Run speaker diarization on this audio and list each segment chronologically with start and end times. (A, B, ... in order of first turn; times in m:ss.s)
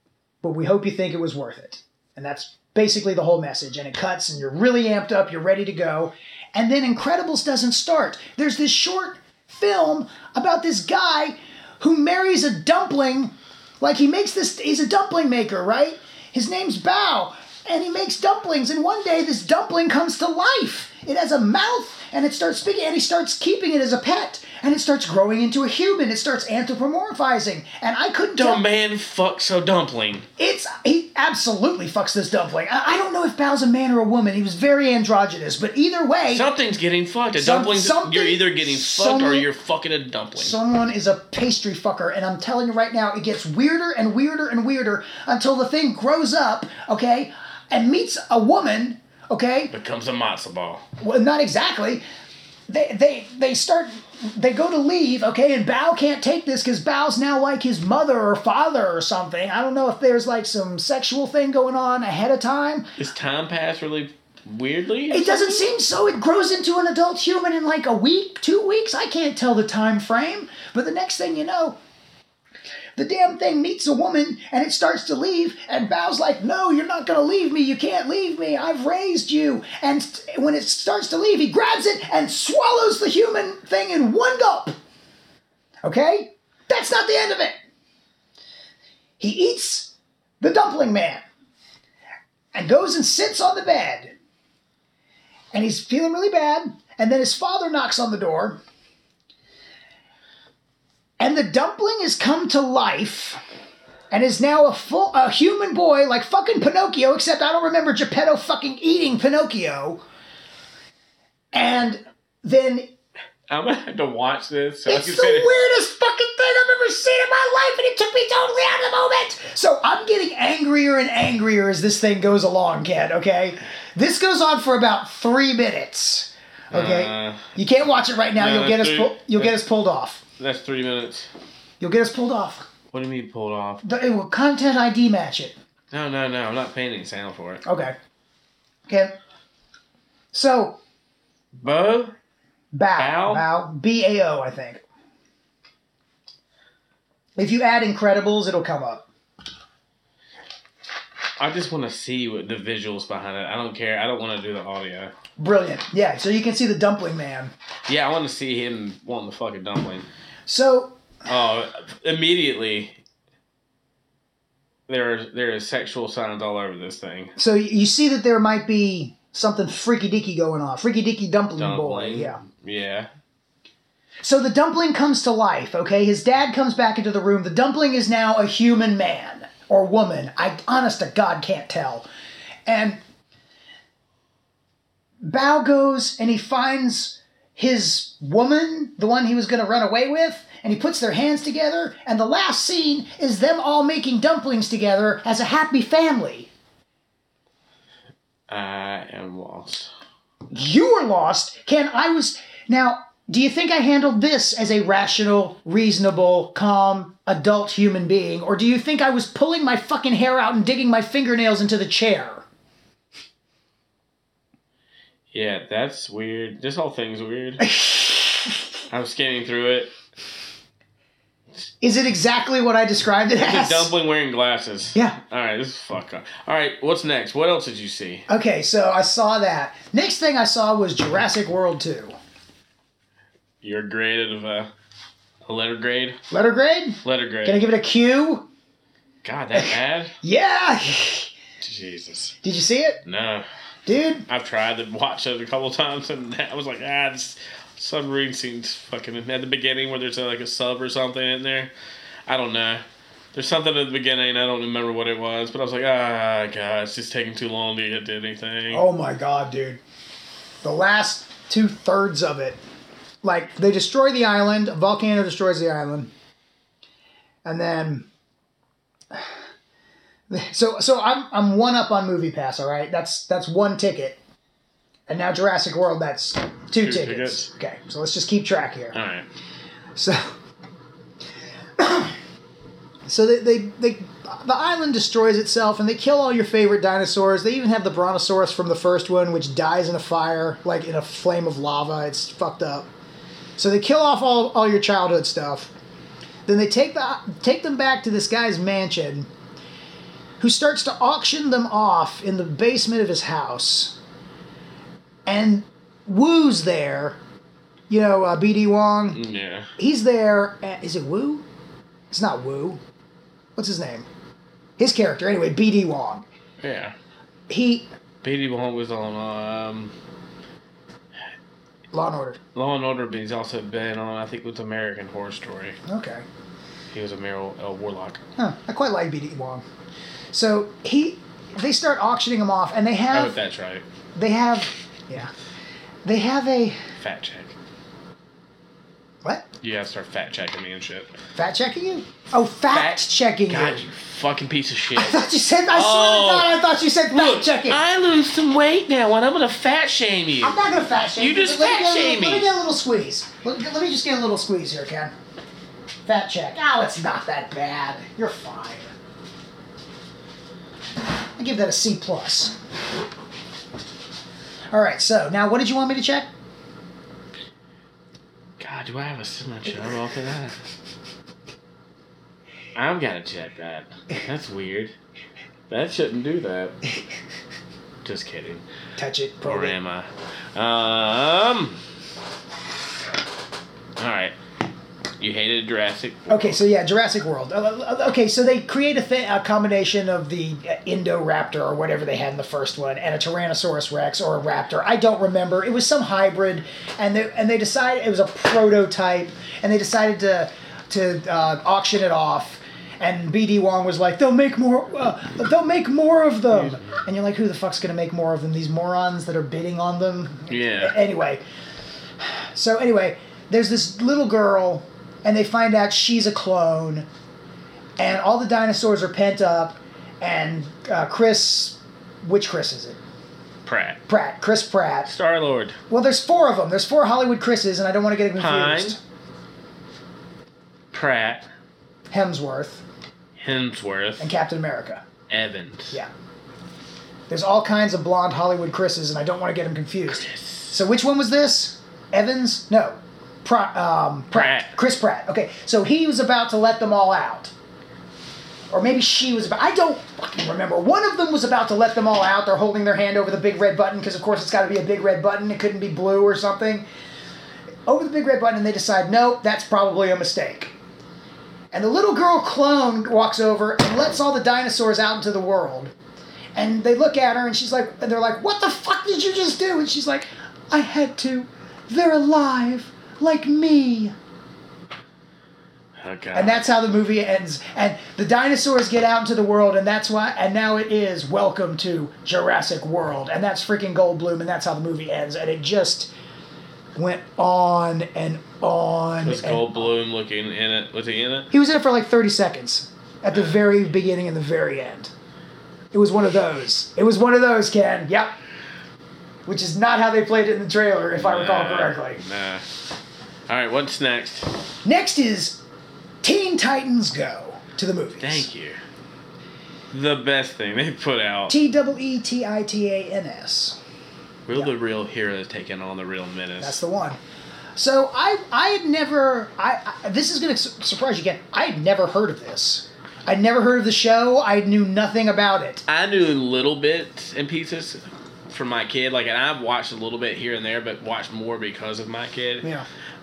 0:00.4-0:28.6 A
0:28.4-0:30.3 B
0:30.4-0:36.5 A
0:36.3-0:40.6 B
0:37.4-0:39.5 A
0:40.4-0:49.7 A
0:49.7-0:50.8 B
0:51.0-0:52.0 A
0:52.7-1:02.9 A
1:03.0-1:05.7 B
1:05.1-1:11.8 A
1:13.0-1:24.8 A
1:25.8-1:27.6 A
1:29.2-1:31.2 A
1:32.5-1:34.1 A
1:35.5-1:38.6 A
1:41.2-1:43.4 A
1:44.1-1:50.0 A
1:51.5-1:52.9 A
1:53.5-1:55.5 B
1:54.9-2:10.2 A
2:06.7-2:07.5 B
2:08.4-2:09.6 B
2:10.4-2:11.3 B
2:11.8-2:12.7 A
2:12.9-2:13.8 B
2:13.8-2:15.6 A
2:15.9-2:17.6 B
2:17.6-2:18.0 A
2:18.9-2:19.1 A
2:20.3-2:20.8 A
2:21.6-2:22.2 B
2:22.7-2:24.8 A
2:23.0-2:23.4 B
2:27.4-2:29.1 A
2:31.4-2:35.1 B
2:35.4-2:37.5 A
2:37.9-2:40.1 B
2:40.5-2:41.0 A
2:41.2-2:43.0 B
2:44.9-2:47.4 B
2:47.4-2:52.4 A
2:51.6-2:53.1 B
2:54.2-3:02.1 A
3:02.7-3:03.0 A
3:05.2-3:16.5 A
3:18.5-3:19.9 B
3:20.5-3:32.4 A
3:35.3-3:37.6 B
3:37.6-3:38.6 A
3:38.9-3:39.9 B
3:41.8-3:43.9 A
3:43.4-3:48.3 B
3:45.0-3:45.2 A
3:48.3-3:52.2 A
3:53.6-3:54.7 B
3:55.4-3:56.2 B
3:56.3-3:58.5 A
3:57.0-3:57.7 B
3:59.2-4:00.1 B
3:59.6-4:01.3 A
4:01.6-4:02.4 B
4:02.4-4:03.0 A
4:03.0-4:03.5 B
4:03.9-4:04.3 A
4:04.3-4:11.7 B
4:12.3-4:18.8 B
4:18.7-4:19.8 A
4:20.6-4:22.6 A
4:23.2-4:26.1 A
4:27.4-4:28.1 A
4:30.3-4:34.2 A
4:35.1-4:39.0 A
4:36.8-4:37.5 B
4:38.9-4:39.3 B
4:40.0-4:40.3 A
4:41.8-4:42.1 A
4:43.1-4:52.9 A
4:53.6-4:55.7 A
4:56.5-4:59.3 A
5:00.4-5:04.0 A
5:05.3-5:07.2 A
5:07.9-5:09.2 A
5:09.1-5:09.7 B
5:09.8-5:11.4 A
5:12.1-5:12.8 A
5:13.6-5:14.1 A
5:14.8-5:16.2 A
5:16.6-5:17.0 B
5:17.5-5:17.9 A
5:18.2-5:20.0 B
5:21.9-5:22.4 A
5:22.6-5:25.8 B
5:25.9-5:26.2 A
5:26.9-5:28.2 B
5:28.4-5:29.6 A
5:30.3-5:33.4 A
5:33.1-5:33.8 B
5:34.2-5:35.3 A
5:36.0-5:36.8 A
5:37.0-5:37.5 B
5:39.6-5:41.1 B
5:41.4-5:43.9 A
5:42.7-5:50.6 B
5:45.0-5:47.8 A
5:50.4-5:55.1 A
5:51.2-5:52.6 B
5:56.1-5:58.9 A
6:01.4-6:02.6 A
6:04.7-6:06.3 A
6:08.6-6:10.6 B
6:12.8-6:14.9 B
6:15.7-6:16.8 B
6:18.0-6:18.6 B
6:19.0-6:19.8 A
6:19.4-6:21.8 B
6:24.0-6:24.4 B
6:25.2-6:26.6 B
6:26.3-6:51.4 A
6:46.5-6:47.0 B
6:50.5-6:51.0 B
6:52.2-6:57.1 A
6:58.0-7:03.0 A
7:03.6-7:04.0 B
7:04.1-7:05.1 A
7:05.1-7:05.8 B
7:05.9-7:09.0 A
7:08.4-7:09.0 B
7:10.9-7:11.5 B
7:12.1-7:12.8 A
7:13.4-7:14.3 B
7:14.2-7:15.0 A
7:15.3-7:16.0 B
7:17.3-7:27.5 A
7:20.1-7:20.8 B
7:24.3-7:24.7 B
7:28.7-7:36.8 A
7:37.9-7:40.7 A
7:41.7-7:45.9 A
7:46.6-7:54.1 A
7:56.0-7:56.6 B
7:56.4-8:06.1 A
8:07.0-8:09.7 A
8:09.2-8:11.5 B
8:11.5-8:15.1 A
8:15.9-8:18.4 A
8:19.5-8:22.2 A
8:21.2-8:22.7 B
8:23.5-8:24.5 B
8:24.8-8:25.6 A
8:26.2-8:28.5 A
8:28.2-8:28.8 B
8:29.9-8:31.5 B
8:31.5-8:33.8 A
8:34.5-8:36.8 B
8:36.6-8:37.2 A
8:37.8-8:45.8 A
8:45.9-8:52.7 B
8:52.6-8:52.9 A